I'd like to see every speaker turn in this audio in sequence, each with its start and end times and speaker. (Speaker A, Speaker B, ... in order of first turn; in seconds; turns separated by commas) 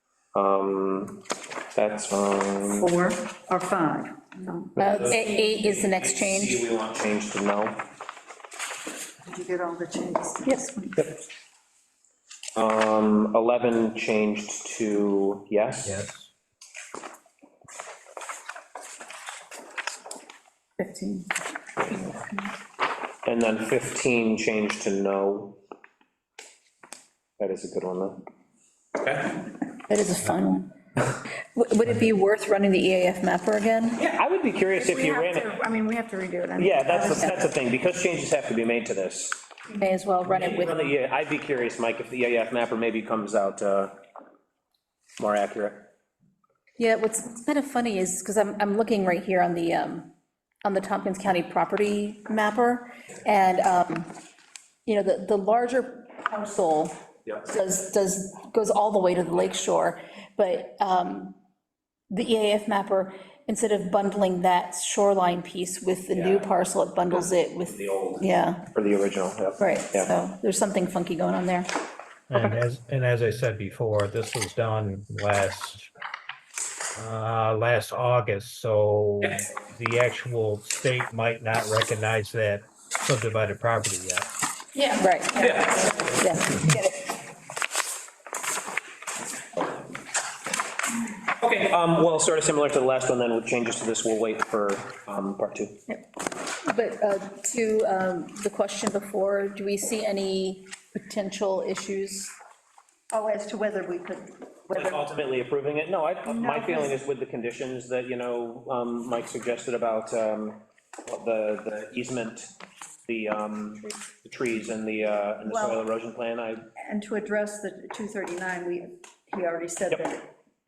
Speaker A: 0.3-1.2, Speaker A: 1.7-2.9, Speaker B: 2.8-4.7, Speaker A: 4.8-7.8, Speaker C: 4.8-6.6, Speaker B: 9.2-11.0, Speaker A: 12.5-16.0, Speaker D: 15.8-16.3, Speaker C: 20.8-21.3, Speaker A: 23.2-25.6, Speaker A: 27.4-28.2, Speaker A: 29.0-29.4, Speaker C: 29.9-30.7, Speaker C: 31.4-34.0, Speaker A: 34.0-35.5, Speaker E: 34.8-37.1, Speaker A: 36.6-39.4, Speaker C: 36.9-37.3, Speaker C: 39.7-40.8, Speaker A: 40.2-44.0, Speaker A: 45.2-45.9, Speaker C: 46.8-54.2, Speaker C: 54.9-61.4, Speaker C: 62.1-68.7, Speaker A: 66.1-70.1, Speaker C: 69.6-71.7, Speaker D: 72.3-75.9, Speaker D: 76.9-84.3, Speaker C: 84.8-87.0, Speaker A: 85.4-86.2, Speaker A: 91.4-95.8, Speaker C: 96.6-102.3, Speaker B: 103.1-105.0, Speaker A: 104.7-112.5, Speaker B: 106.3-106.9, Speaker A: 113.0-116.7, Speaker B: 115.4-115.8, Speaker B: 116.8-120.3